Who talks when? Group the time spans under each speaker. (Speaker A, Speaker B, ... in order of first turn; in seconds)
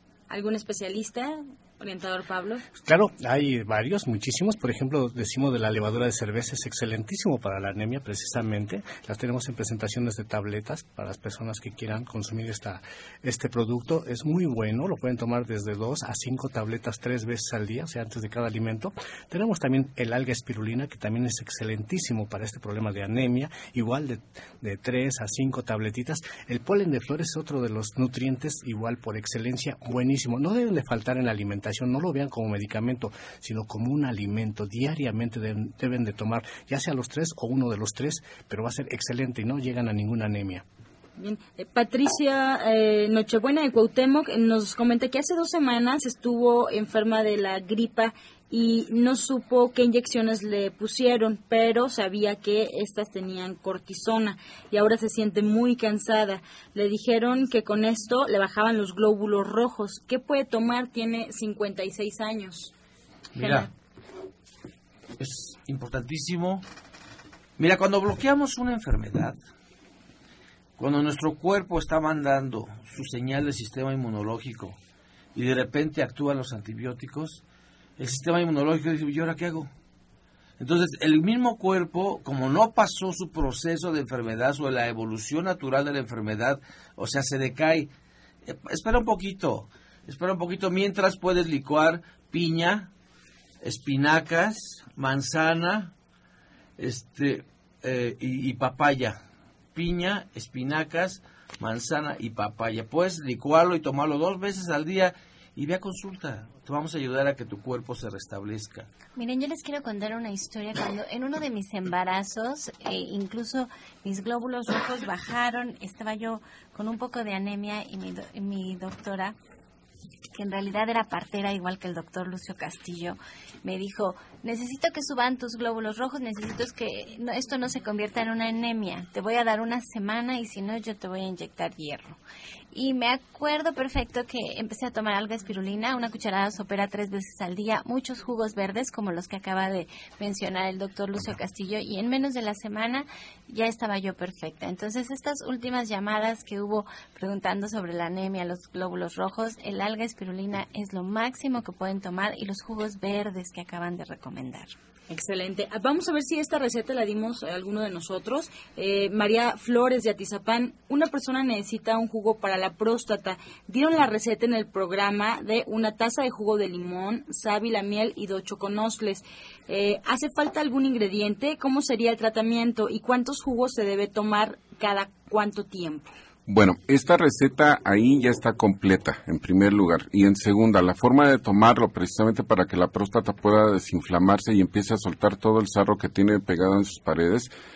Speaker A: 0.3-2.6, 41.2-62.7, 63.4-63.7, 155.1-176.1
Speaker B: 2.8-40.6
Speaker C: 63.4-63.7, 65.2-66.6, 67.6-69.4, 70.8-74.8, 75.3-77.4, 78.0-79.7, 80.6-87.9, 88.5-92.9, 93.6-95.9, 96.8-99.2, 99.8-108.9
Speaker D: 109.2-119.4, 120.3-132.2, 132.7-154.7
Speaker E: 176.5-187.5